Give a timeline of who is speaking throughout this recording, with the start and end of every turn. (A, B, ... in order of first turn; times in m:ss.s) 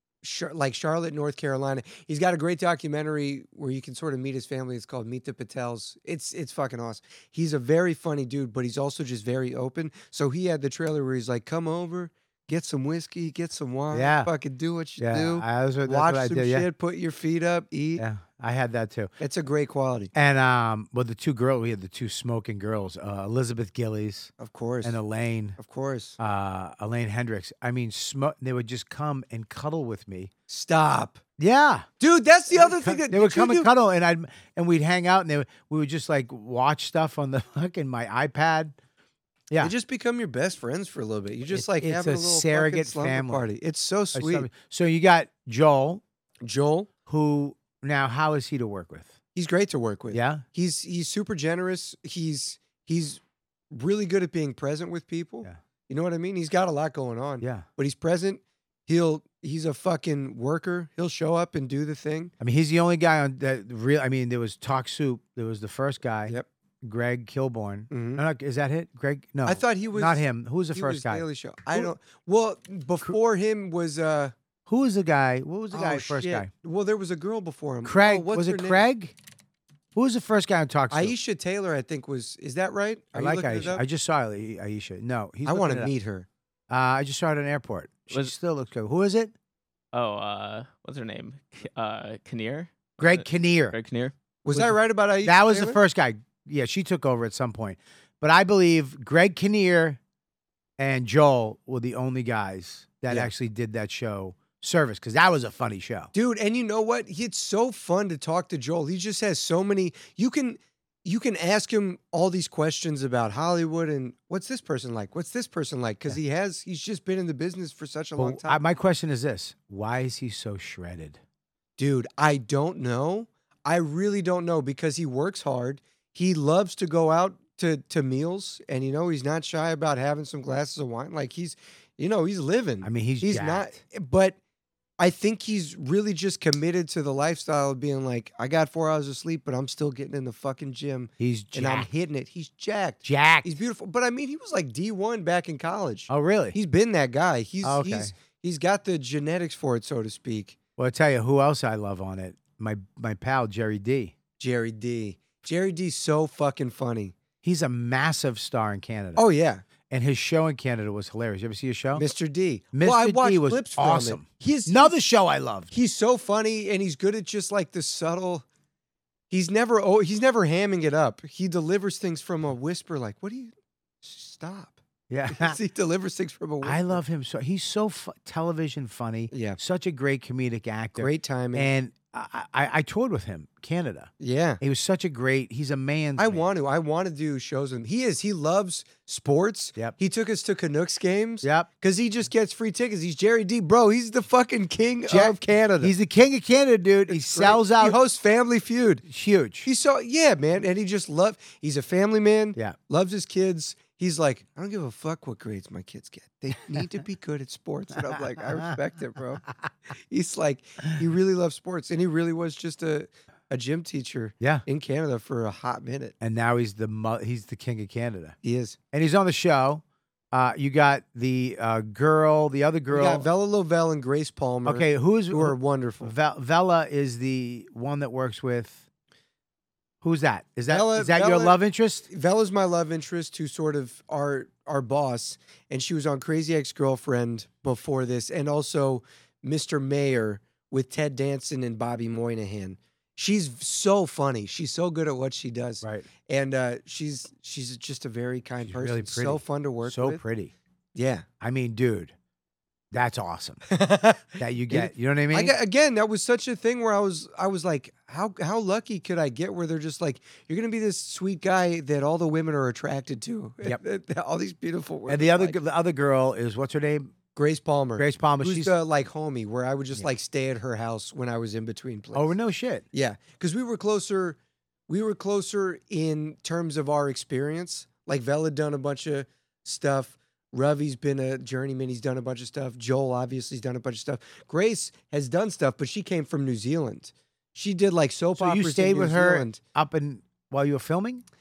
0:00.2-0:18.0 A
0:13.9-0:14.3 B
0:15.0-0:16.7 B
0:18.0-0:19.1 B
0:19.2-0:20.1 A
0:20.1-0:24.3 B
0:24.4-0:25.0 A
0:24.8-0:25.6 B
0:25.6-0:26.2 A
0:26.2-0:30.3 B
0:30.5-0:31.2 A
0:31.4-0:31.9 B
0:32.0-0:33.7 A
0:32.5-0:38.7 B
0:39.6-0:44.5 A
0:41.5-0:43.5 B
0:44.1-0:46.0 B
0:46.4-0:46.9 A
0:47.1-0:49.2 B
0:49.3-1:02.3 A
0:50.1-0:50.4 B
0:57.4-0:57.7 B
1:02.4-1:11.9 B
1:07.9-1:08.2 A
1:09.4-1:14.3 A
1:14.7-1:16.5 B
1:15.7-1:18.8 A
1:17.8-1:19.1 B
1:19.9-1:21.2 B
1:20.9-1:23.8 A
1:23.1-1:25.9 B
1:25.4-1:26.3 A
1:26.7-1:29.3 B
1:29.9-1:34.1 C
1:33.0-1:33.8 B
1:34.4-1:35.8 A
1:34.5-1:40.0 B
1:40.8-1:46.1 B
1:46.1-1:58.6 A
1:58.2-2:01.2 B
2:01.8-2:14.4 A
2:12.8-2:13.8 B
2:15.0-2:30.6 A
2:21.2-2:21.9 B
2:23.0-2:23.6 B
2:26.1-2:26.6 B
2:27.6-2:28.1 B
2:30.8-2:34.1 B
2:34.4-2:37.1 A
2:37.4-2:39.2 B
2:39.2-2:39.6 A
2:39.9-2:42.0 B
2:41.9-2:44.9 A
2:42.7-2:45.7 B
2:45.7-2:48.4 A
2:49.3-2:54.8 A
2:55.1-2:55.6 B
2:55.3-2:57.0 A
2:56.6-3:06.4 B
2:59.3-2:59.6 A
3:01.0-3:01.7 A
3:04.2-3:04.6 A
3:06.2-3:15.9 A
3:11.4-3:11.7 B
3:15.1-3:18.0 B
3:17.1-3:19.0 A
3:19.1-3:19.7 B
3:19.6-3:29.4 A
3:29.9-3:36.1 A
3:36.2-3:38.4 B
3:38.4-3:38.8 A
3:38.9-3:43.3 B
3:42.9-3:46.1 A
3:44.6-3:48.8 B
3:50.0-3:52.0 B
3:50.7-4:10.2 A
4:05.8-4:06.1 B
4:08.6-4:10.5 B
4:10.9-4:11.2 A
4:11.4-4:12.1 B
4:12.9-4:13.6 B
4:13.7-4:25.6 A
4:14.4-4:15.5 B
4:25.1-4:27.1 B
4:27.3-4:32.3 A
4:28.0-4:28.8 B
4:32.1-4:32.8 B
4:32.9-4:49.6 A
4:48.4-4:51.2 B